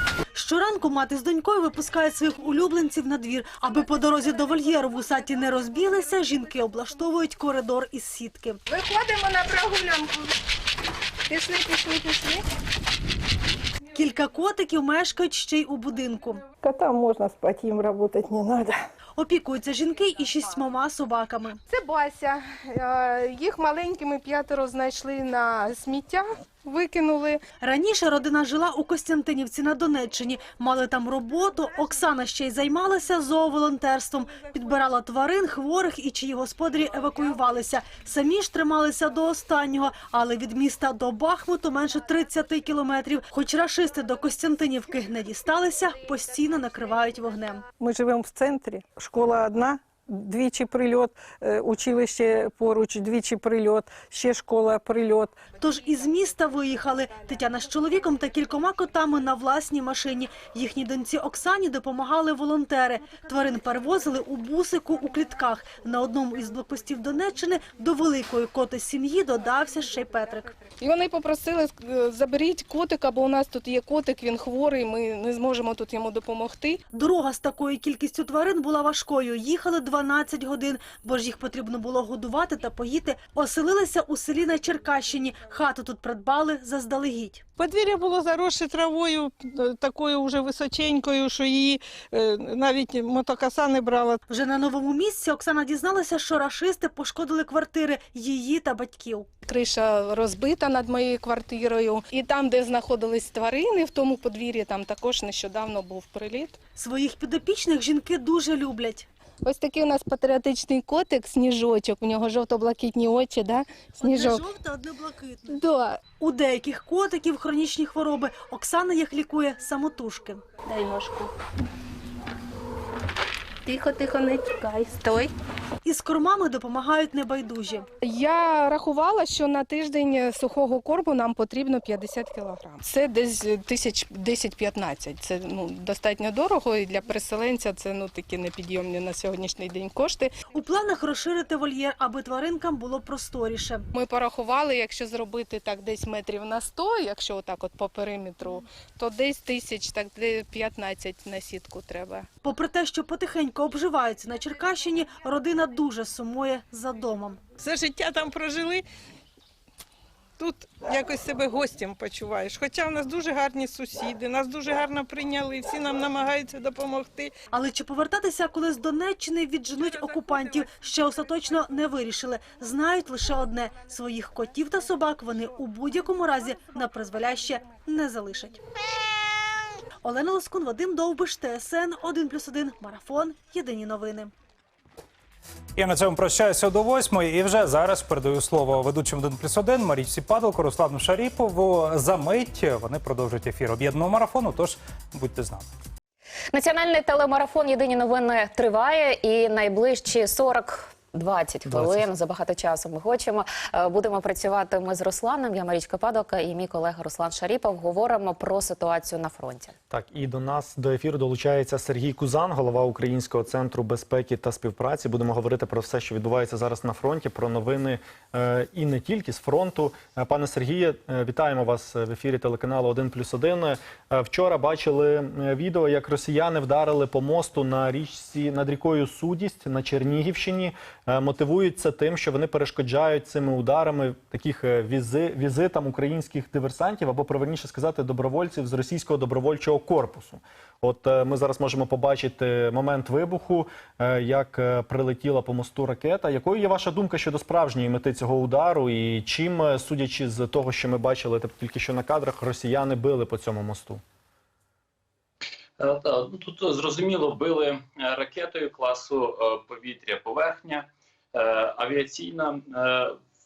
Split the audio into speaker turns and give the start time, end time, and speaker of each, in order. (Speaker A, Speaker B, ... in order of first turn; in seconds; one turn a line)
Speaker A: 0.3-8.6
Speaker B: 8.7-10.4
Speaker B: 11.3-12.4
Speaker A: 13.9-16.5
Speaker C: 16.6-18.8
Speaker A: 19.1-21.6
Speaker B: 21.7-27.4
Speaker A: 27.6-47.7
Speaker C: 47.8-55.5
Speaker A: 55.5-70.6
Speaker B: 70.8-76.8
Speaker A: 76.9-87.4
Speaker C: 87.6-94.2
Speaker A: 94.3-99.3
Speaker B: 99.4-106.6
Speaker A: 106.8-109.1
Speaker B: 109.4-114.4
Speaker A: 114.0-120.5
Speaker B: 115.5-116.0
Speaker B: 120.6-121.3
Speaker B: 123.6-125.3
Speaker A: 125.8-127.9
Speaker B: 128.0-140.4
Speaker A: 140.5-143.9
Speaker B: 143.9-152.3
Speaker A: 152.4-157.4
Speaker C: 157.6-158.8
Speaker C: 160.4-167.3
Speaker A: 167.5-178.6
Speaker A: 180.0-184.3
Speaker D: 185.8-195.7
Speaker E: 196.5-209.7
Speaker F: 201.7-202.0
Speaker F: 209.9-254.0
Speaker G: 255.8-263.2